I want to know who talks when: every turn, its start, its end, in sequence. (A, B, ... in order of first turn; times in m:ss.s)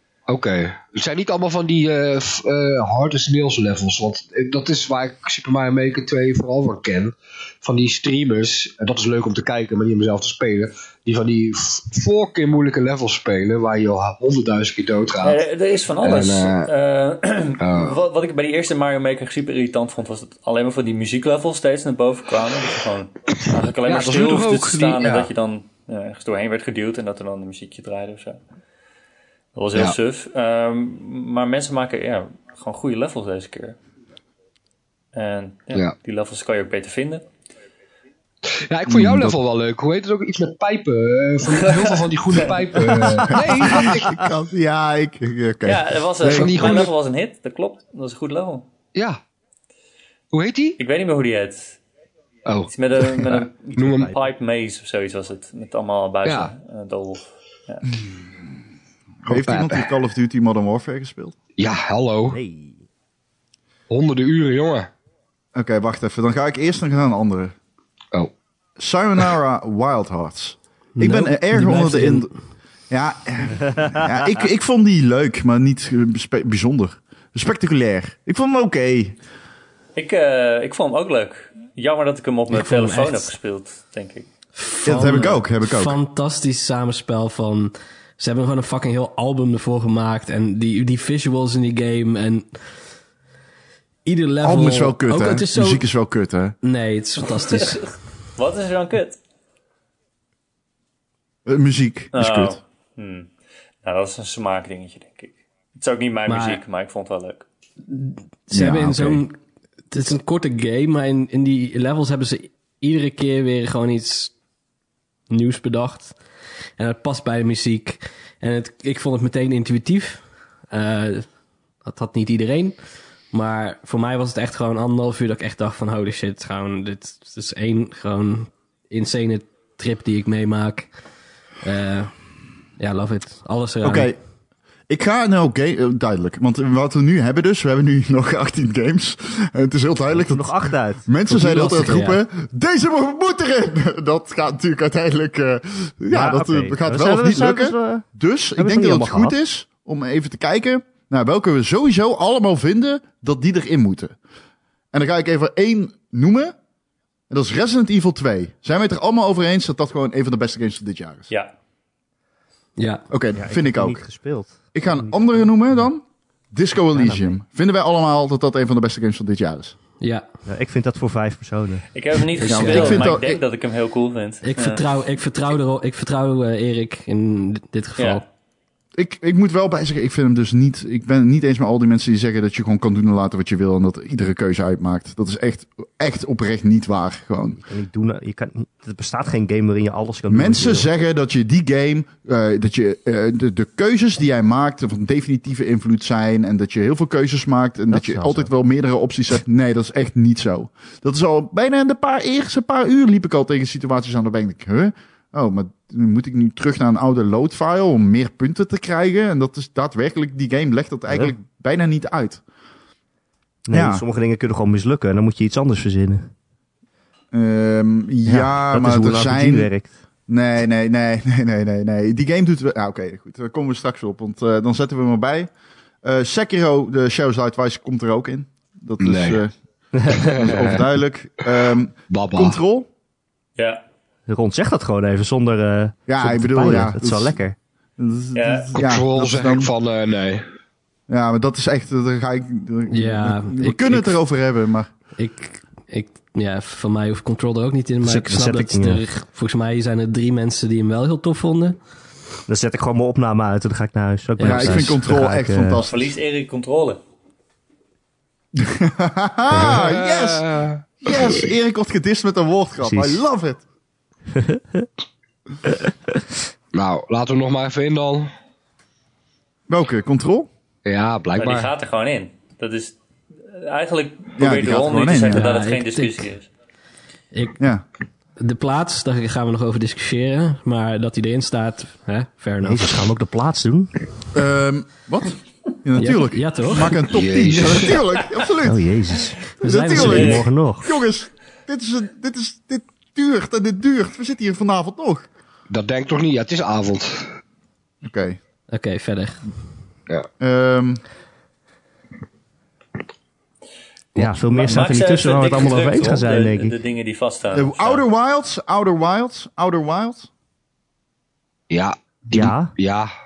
0:00.3-0:15.4 A
0:15.2-0:28.4 B
0:16.0-0:16.7 A
0:17.6-0:18.0 A
0:23.8-0:25.3 A
0:29.6-0:33.8 B
0:35.1-0:37.2 B
0:38.5-0:44.2 A
0:38.9-0:39.4 C
0:41.5-0:42.0 B
0:43.2-0:46.8 C
0:45.6-0:48.7 B
0:46.3-0:46.9 A
0:48.9-0:49.2 A
0:50.3-0:50.8 A
0:50.8-0:51.8 B
0:52.5-0:54.1 A
0:52.7-0:57.9 B
0:53.8-0:54.2 D
0:56.2-0:56.5 A
0:59.2-1:01.4 C
0:59.3-0:59.9 A
1:01.6-1:02.4 A
1:02.3-1:02.8 D
1:03.9-1:04.9 A
1:05.6-1:07.6 C
1:08.8-1:12.3 C
1:11.0-1:12.3 E
1:12.9-1:19.2 C
1:20.0-1:24.3 B
1:22.5-1:23.3 E
1:24.6-1:32.6 E
1:24.8-1:26.0 C
1:34.1-1:35.8 E
1:34.4-1:36.6 C
1:36.6-1:37.9 E
1:38.4-1:39.2 B
1:41.5-1:42.6 C
1:42.1-1:43.3 B
1:43.8-1:47.4 B
1:46.3-1:46.6 E
1:47.9-1:49.4 E
1:48.5-1:49.2 C
1:49.9-1:54.3 E
1:55.3-1:56.2 E
1:56.8-2:01.3 E
2:01.8-2:02.8 E
2:03.3-2:10.9 E
2:11.6-2:12.1 E
2:12.8-2:14.1 E
2:13.8-2:14.2 C
2:14.9-2:34.2 C
2:20.1-2:21.1 D
2:21.3-2:22.2 E
2:26.1-2:28.1 D
2:28.6-2:29.4 D
2:34.9-2:36.5 C
2:37.3-2:41.3 C
2:42.8-2:43.1 E
2:43.1-2:44.0 C
2:43.3-2:45.9 D
2:44.7-2:49.8 C
2:46.9-2:47.4 D
2:50.0-2:50.3 E
2:50.5-2:51.9 D
2:51.9-2:54.8 B
2:52.4-2:53.4 C
2:52.4-2:53.1 E
2:54.4-2:58.2 E
2:58.0-2:58.2 B
2:59.0-3:07.6 C
3:07.6-3:10.9 D
3:10.3-3:32.4 C
3:17.9-3:18.5 D
3:31.1-3:31.3 D
3:33.7-3:36.3 D
3:33.7-3:34.0 C
3:37.3-3:39.7 C
3:38.2-3:39.9 D
3:40.3-3:45.5 C
3:46.0-3:49.5 C
3:49.0-3:49.4 A
3:50.1-3:50.8 A
3:50.1-3:52.9 C
3:52.1-3:52.6 A
3:53.6-3:53.8 B
3:54.3-3:57.6 D
3:56.1-3:57.4 C
3:58.0-3:59.7 C
3:58.3-3:58.7 B
3:58.7-4:00.5 A
4:01.1-4:04.9 C
4:02.9-4:04.2 E
4:05.2-4:11.8 E
4:08.0-4:09.0 D
4:12.5-4:15.8 D
4:14.4-4:14.9 E
4:14.4-4:16.2 C
4:15.9-4:17.0 B
4:18.6-4:20.5 C
4:19.5-4:21.4 A
4:21.0-4:23.6 C
4:22.8-4:23.2 D
4:24.4-4:24.9 D
4:25.7-4:26.2 D
4:26.7-4:28.3 A
4:29.7-4:30.5 C
4:30.8-4:31.7 A
4:31.4-4:33.0 B
4:33.5-4:36.5 B
4:34.4-4:35.5 C
4:35.3-4:36.3 E
4:37.3-4:37.6 E
4:37.6-4:37.8 C
4:38.4-4:43.0 E
4:42.6-4:44.0 D
4:44.3-4:48.9 C
4:46.0-4:47.0 E
4:47.1-4:48.0 A
4:48.6-4:50.9 D
4:49.5-4:55.3 C
4:49.6-4:50.4 E
4:50.0-4:50.4 B
4:55.7-4:57.4 A
4:58.0-4:58.4 C
4:58.7-4:59.5 E
5:00.4-5:01.0 C
5:04.2-5:06.8 D
5:04.5-5:08.0 B
5:07.5-5:10.3 C
5:11.7-5:13.1 A
5:12.3-5:12.7 D